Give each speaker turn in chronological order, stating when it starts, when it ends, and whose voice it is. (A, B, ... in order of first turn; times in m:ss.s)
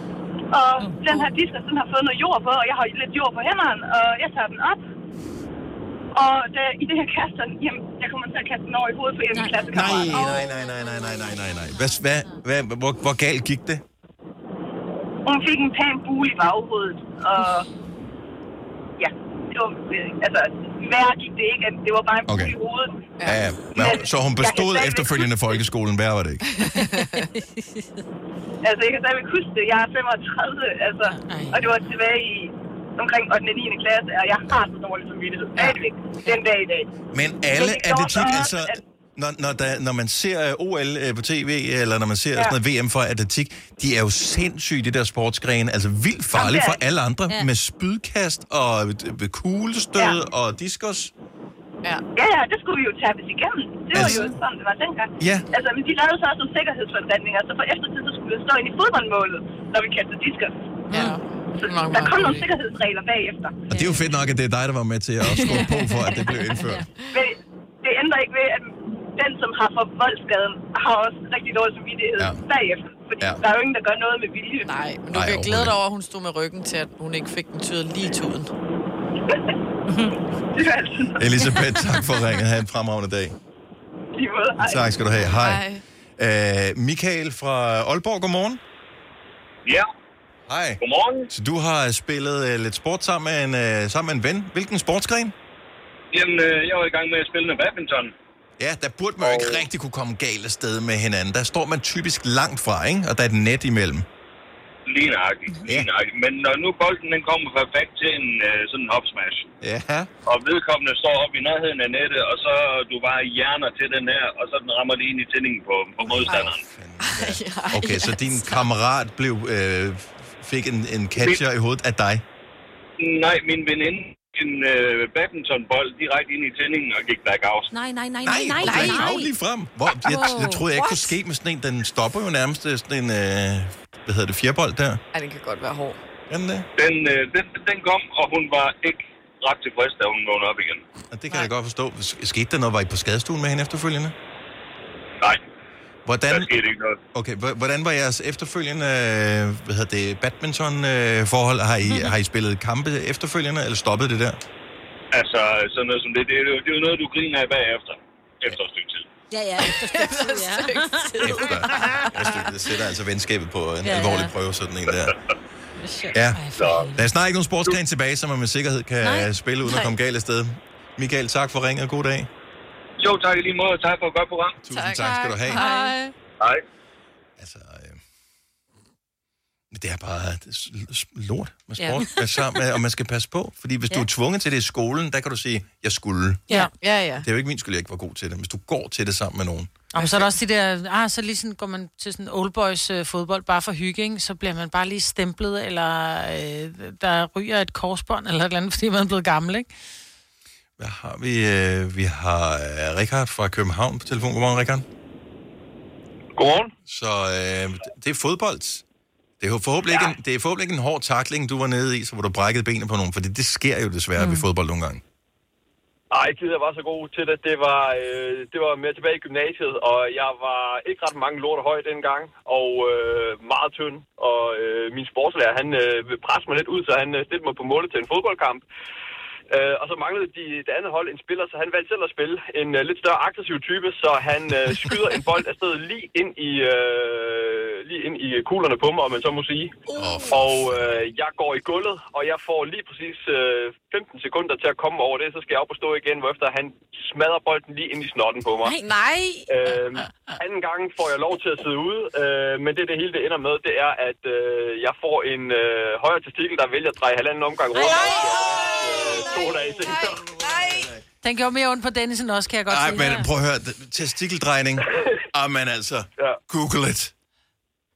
0:00.5-0:04.8 A
0:00.8-0:01.3 B
0:06.2-0:10.4 A
0:09.3-0:11.9 B
0:09.7-0:13.8 C
0:15.3-0:17.6 A
0:19.0-0:22.9 A
0:22.3-0:22.6 C
0:23.2-0:26.5 C
0:23.8-0:25.3 A
0:26.5-0:27.3 D
0:27.4-0:27.6 B
0:28.6-0:36.9 A
0:31.1-0:31.8 E
0:37.1-0:51.1 C
0:37.6-0:38.7 A
0:46.4-0:46.8 A
0:52.2-1:00.5 A
0:53.9-0:54.3 C
0:55.2-0:55.5 C
1:00.9-1:02.5 D
1:01.9-1:03.5 A
1:03.7-1:06.9 C
1:05.3-1:07.1 D
1:07.8-1:08.6 A
1:09.2-1:14.6 A
1:14.6-1:18.5 D
1:15.1-1:15.7 C
1:20.6-1:20.9 A
1:21.2-1:23.4 C
1:24.2-1:24.8 A
1:24.6-1:25.6 C
1:25.1-1:25.8 D
1:26.2-1:28.6 C
1:30.5-1:35.4 C
1:30.8-1:31.3 F
1:36.1-1:38.1 F
1:38.6-1:44.1 C
1:39.2-1:39.6 F
1:44.9-1:49.5 F
1:49.6-1:50.1 C
1:50.3-1:56.6 F
1:56.0-2:02.2 C
1:57.0-1:58.6 D
2:03.0-2:07.7 F
2:07.7-2:09.3 B
2:08.2-2:15.0 C
2:08.6-2:09.1 D
2:10.1-2:11.1 D
2:10.1-2:10.7 B
2:15.1-2:16.0 D
2:16.3-2:16.7 C
2:16.8-2:20.8 F
2:21.1-2:24.2 C
2:26.1-2:26.5 C
2:26.3-2:27.0 F
2:27.1-2:34.4 C
2:35.1-2:39.1 F
2:39.3-2:42.0 B
2:39.6-2:42.4 D
2:41.2-2:45.2 C
2:43.8-2:44.3 B
2:45.8-2:46.2 B
2:46.1-2:52.3 C
2:46.4-2:47.0 E
2:46.6-2:46.9 F
2:49.0-2:49.9 B
2:53.0-2:54.6 F
2:54.6-2:55.6 C
2:54.7-2:56.1 D
2:55.5-2:56.0 B
2:57.4-2:58.0 C
2:59.7-3:06.4 C
3:06.6-3:07.3 D
3:07.2-3:09.7 C
3:09.9-3:19.7 E
3:20.8-3:24.8 C
3:26.4-3:26.7 G
3:26.9-3:28.8 C
3:29.4-3:35.0 C
3:34.2-3:34.4 B
3:36.1-3:48.6 G
3:49.5-4:08.8 G
4:00.0-4:01.0 C
4:08.6-4:09.4 B
4:08.8-4:09.2 D
4:09.5-4:20.3 G
4:17.8-4:19.6 B
4:20.3-4:20.9 D
4:21.2-4:23.3 E
4:22.7-4:27.1 C